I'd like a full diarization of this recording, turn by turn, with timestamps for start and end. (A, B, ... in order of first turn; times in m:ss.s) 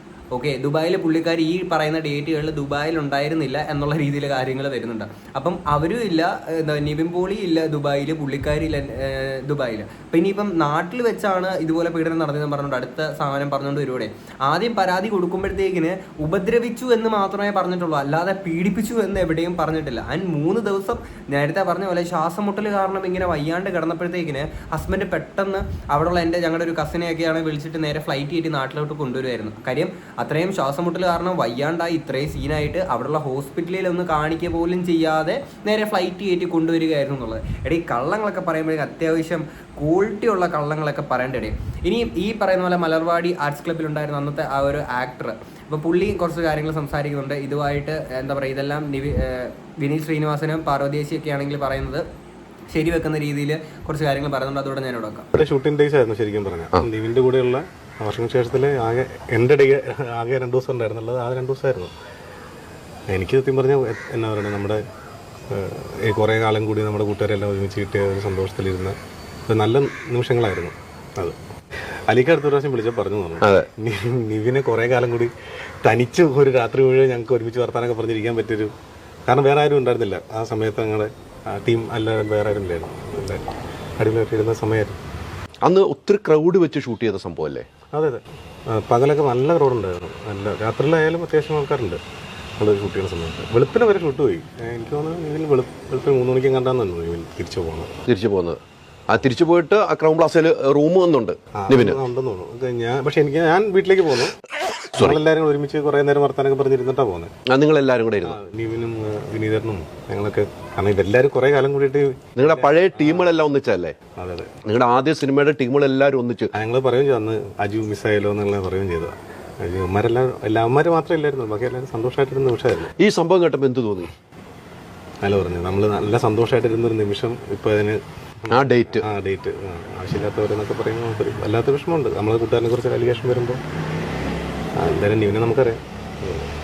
0:00.3-0:52.0 A
0:52.7-0:55.3 A
0:55.4-1:01.9 B
1:03.1-1:04.8 B
1:05.5-1:09.0 B
1:09.5-1:11.4 B
1:12.1-1:15.3 B
1:13.4-1:13.7 C
1:15.8-1:18.7 B
1:19.3-1:23.4 B
1:24.0-1:25.0 B
1:25.6-1:27.7 C
1:27.9-1:32.0 B
1:32.6-1:37.9 B
1:38.0-1:42.0 C
1:41.5-1:44.3 B
1:44.9-1:45.2 C
1:45.0-1:47.3 B
1:47.5-1:48.4 C
1:48.2-1:53.4 B
1:52.4-1:54.0 C
1:54.2-1:54.5 B
1:54.6-1:56.5 C
1:56.5-2:02.9 B
2:02.8-2:04.1 C
2:05.2-2:13.6 B
2:08.5-2:09.1 C
2:14.8-2:16.5 B